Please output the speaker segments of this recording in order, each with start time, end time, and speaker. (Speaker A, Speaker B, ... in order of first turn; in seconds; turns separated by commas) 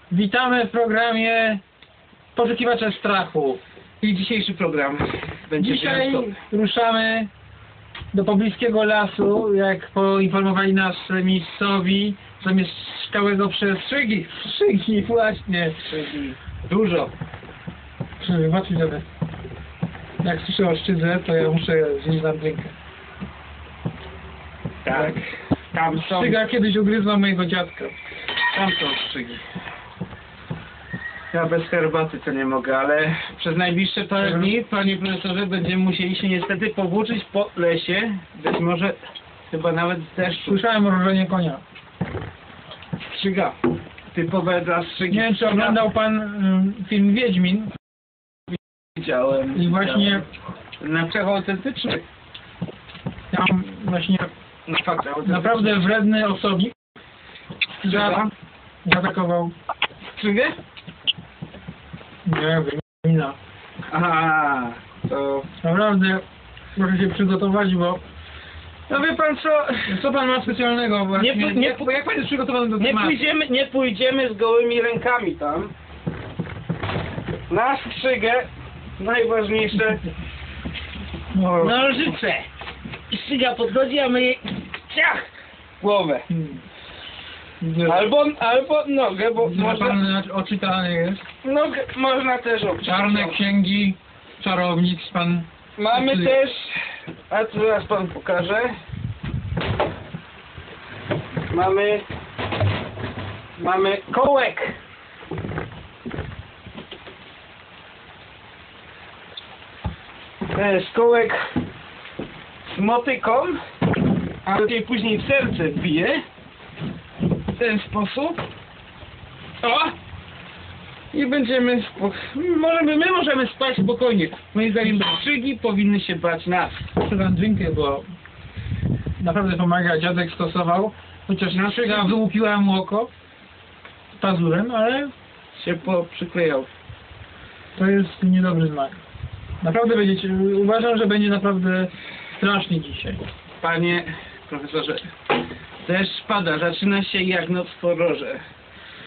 Speaker A: 0.1-1.6, Speaker A: 2.3-3.6, Speaker B: 4.0-6.4, Speaker A: 5.6-7.3, Speaker A: 8.1-15.8, Speaker B: 15.8-17.1, Speaker A: 18.2-19.0, Speaker A: 20.2-22.7, Speaker B: 24.8-26.4, Speaker A: 24.9-25.2, Speaker A: 26.0-27.9, Speaker B: 28.5-29.4, Speaker B: 31.3-39.0, Speaker A: 34.2-34.5, Speaker B: 39.5-40.6, Speaker A: 40.4-41.6, Speaker B: 43.0-43.6, Speaker B: 44.1-45.8, Speaker A: 45.1-47.7, Speaker B: 48.9-50.2, Speaker A: 49.5-50.2, Speaker B: 50.8-52.0, Speaker A: 53.3-54.3, Speaker B: 54.7-55.9, Speaker A: 55.2-56.7, Speaker A: 57.8-58.2, Speaker B: 57.8-58.3, Speaker A: 58.8-59.5, Speaker B: 60.1-60.6, Speaker A: 62.2-63.4, Speaker B: 63.9-65.5, Speaker A: 65.6-66.2, Speaker A: 66.8-68.0, Speaker B: 68.9-69.8, Speaker A: 69.8-73.2, Speaker B: 71.2-71.9, Speaker B: 72.8-75.7, Speaker B: 77.5-80.0, Speaker A: 81.3-82.2, Speaker B: 81.6-82.4, Speaker B: 83.1-85.3, Speaker B: 85.8-86.2, Speaker A: 86.3-86.6, Speaker A: 87.6-88.1, Speaker B: 87.8-90.0, Speaker A: 89.4-91.2, Speaker B: 91.4-93.4, Speaker A: 92.8-96.4, Speaker B: 95.8-98.7, Speaker B: 101.5-102.0, Speaker B: 103.6-104.8, Speaker B: 110.5-111.4, Speaker B: 112.7-113.6, Speaker B: 114.4-116.2, Speaker B: 117.5-118.4, Speaker B: 119.6-119.9, Speaker B: 121.1-126.8, Speaker A: 127.0-128.1, Speaker A: 129.2-133.1, Speaker B: 131.5-132.2, Speaker A: 134.2-135.1, Speaker B: 135.5-136.7, Speaker A: 137.7-139.0, Speaker A: 139.6-143.2, Speaker B: 143.6-145.1, Speaker B: 145.8-148.4